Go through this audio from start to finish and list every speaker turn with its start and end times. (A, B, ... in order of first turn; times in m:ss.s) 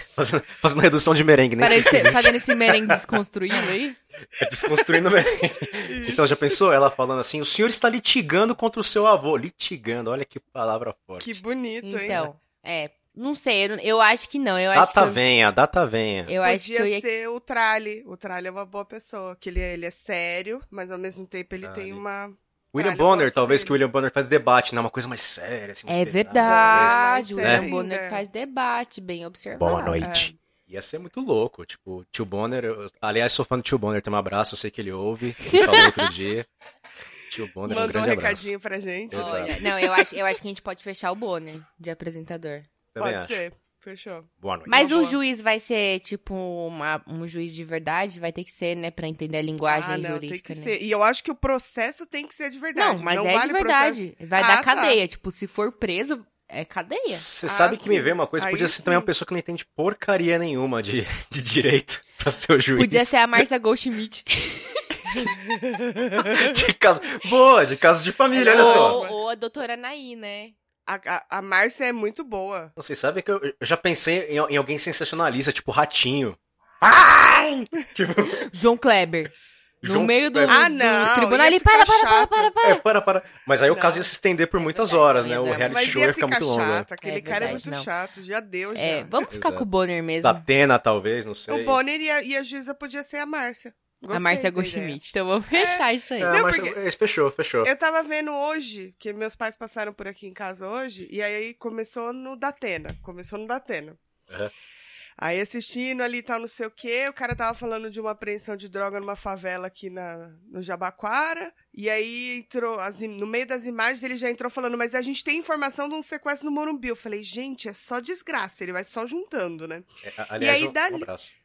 0:00.2-0:03.1 A
0:01.6-0:04.0 B
0:04.4-0:11.4 A
0:05.8-0:06.6 C
0:11.2-0:12.2 C
0:11.8-0:15.2 B
0:14.7-0:16.3 A
0:16.3-0:17.0 B
0:16.4-0:23.8 C
0:21.6-0:22.0 A
0:22.7-0:27.7 A
0:25.9-0:30.0 B
0:26.3-0:28.2 C
0:29.6-0:36.5 A
0:30.0-0:30.3 C
0:35.5-0:36.1 B
0:37.3-0:38.5 A
0:37.6-0:39.7 C
0:39.1-0:39.5 A
0:39.1-0:42.7 B
0:42.9-0:43.4 A
0:43.0-0:45.2 C
0:44.4-0:44.8 A
0:44.7-0:50.7 B
0:49.6-0:55.0 C
0:52.8-0:57.2 B
0:57.0-1:03.4 A
0:57.4-0:59.1 C
1:02.7-1:04.8 B
1:05.2-1:06.4 C
1:06.2-1:09.0 A
1:08.3-1:09.2 C
1:08.4-1:10.5 B
1:10.8-1:12.7 C
1:12.8-1:18.5 A
1:18.5-1:19.3 B
1:19.8-1:20.6 A
1:19.8-1:22.8 B
1:20.5-1:22.5 C
1:22.6-1:27.6 A
1:23.7-1:24.1 C
1:24.6-1:26.0 B
1:25.7-1:29.1 C
1:27.0-1:27.9 B
1:28.7-1:30.4 B
1:29.2-1:29.6 A
1:30.2-1:31.8 A
1:31.5-1:35.0 C
1:34.1-1:36.4 B
1:35.5-1:36.8 C
1:36.2-1:37.7 A
1:37.6-1:44.0 C
1:45.2-1:59.8 C
2:00.0-2:01.3 A
2:00.4-2:01.1 C